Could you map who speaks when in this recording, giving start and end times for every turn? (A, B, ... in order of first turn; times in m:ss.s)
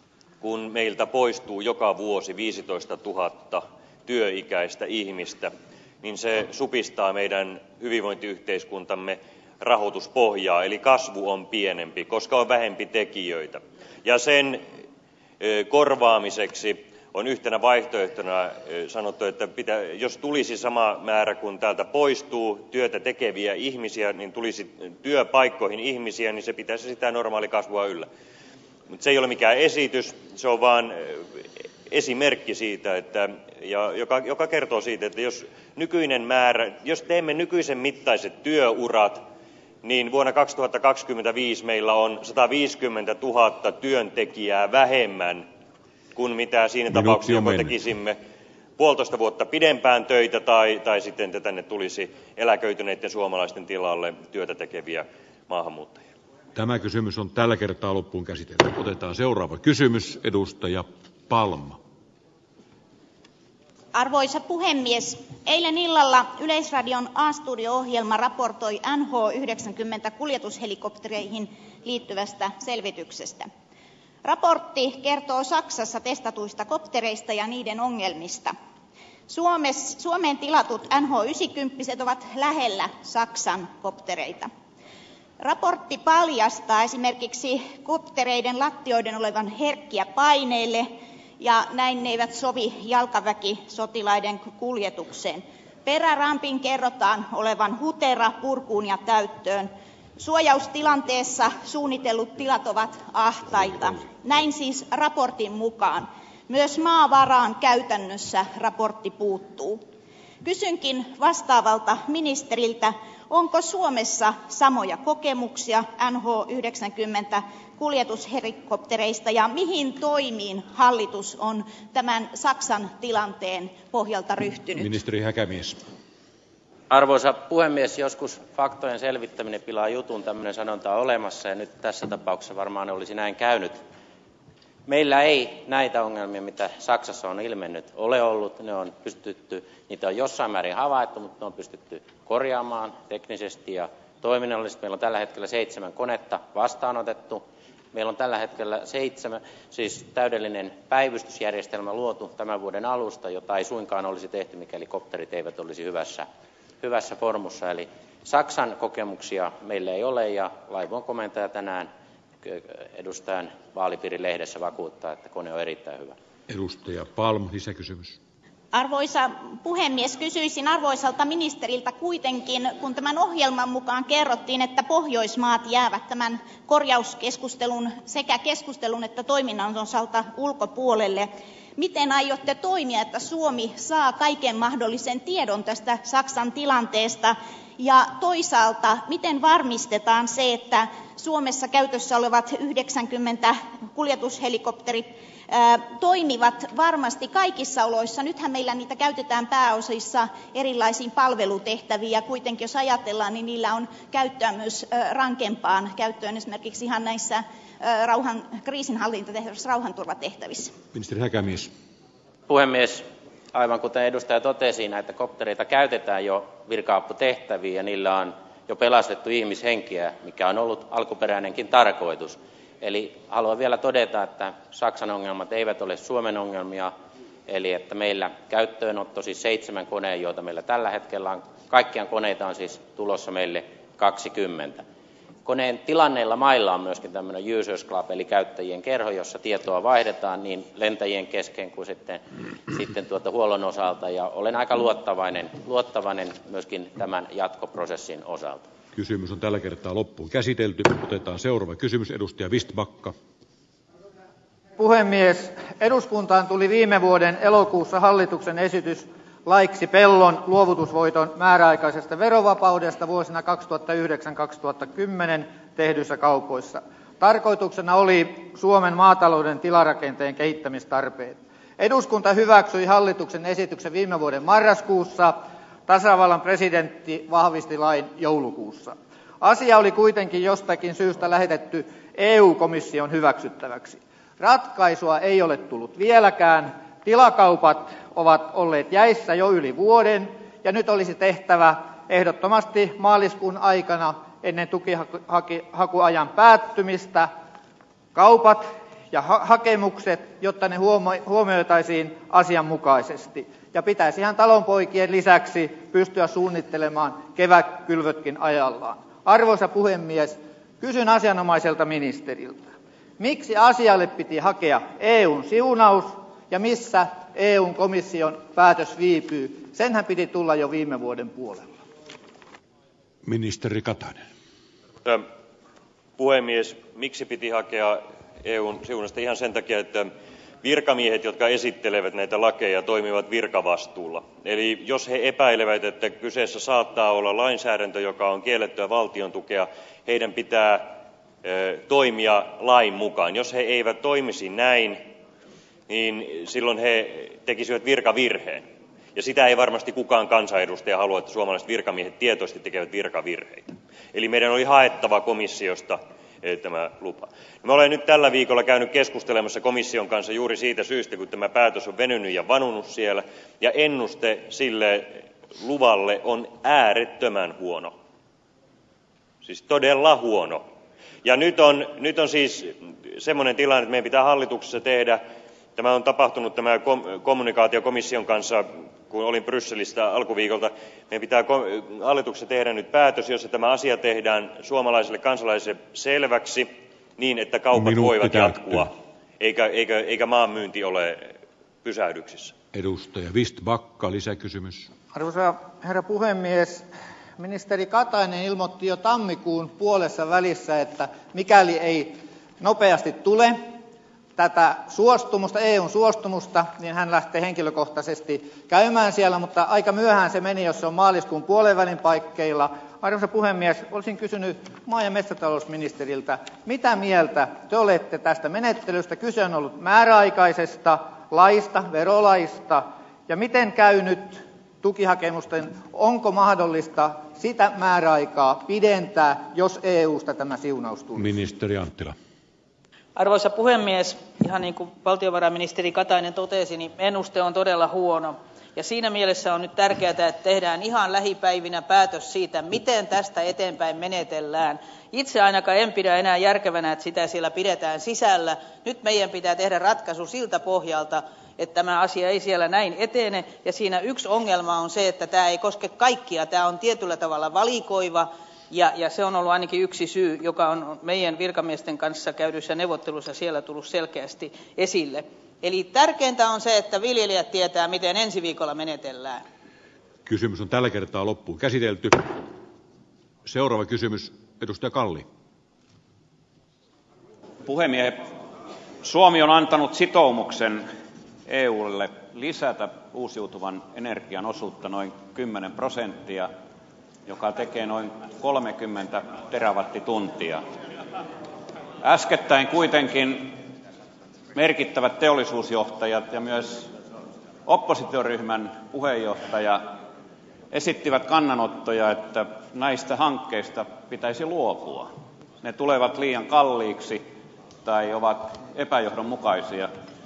0:00.4-0:14.6 A
0:15.4-0:28.1 A
0:28.9-0:31.2 A
0:31.9-0:39.2 A
0:39.8-0:45.5 A
0:46.1-0:48.2 A
0:46.9-0:47.7 B
0:48.8-0:56.0 A
0:56.5-1:01.8 B
1:03.9-1:13.5 C
1:14.2-1:18.5 C
1:19.3-1:24.5 C
1:25.4-1:49.8 C
1:50.4-2:04.9 C
2:04.8-2:05.8 B
2:06.9-2:13.8 D
2:14.9-2:36.3 D
2:36.8-2:41.9 D
2:42.4-2:46.1 D
2:46.5-2:48.2 B
2:48.7-3:30.7 C
3:30.9-3:31.7 B
3:32.5-3:46.9 D
3:47.5-3:54.8 D
3:55.4-4:08.6 D
4:09.0-4:13.1 B
4:14.8-4:57.3 E
4:58.1-5:21.7 E
5:23.2-5:24.2 B
5:26.2-5:30.1 A
5:30.6-5:45.0 A
5:45.9-6:07.9 A
6:09.4-6:10.6 A
6:11.2-6:15.2 A
6:15.8-6:32.5 A
6:27.7-6:28.9 B
6:32.7-6:34.9 B
6:35.1-6:43.6 E
6:44.4-7:11.3 E
7:11.1-7:12.1 B
7:13.2-7:49.4 F
7:50.2-7:52.3 B
7:53.4-7:55.2 B
7:57.6-7:58.2 G
7:59.0-8:00.8 G
8:01.5-8:06.5 G
8:07.2-8:10.6 G
8:12.0-8:13.6 G
8:14.5-8:16.9 G
8:17.6-8:19.9 G
8:20.7-8:25.1 G
8:25.6-8:27.2 G
8:27.8-8:29.9 G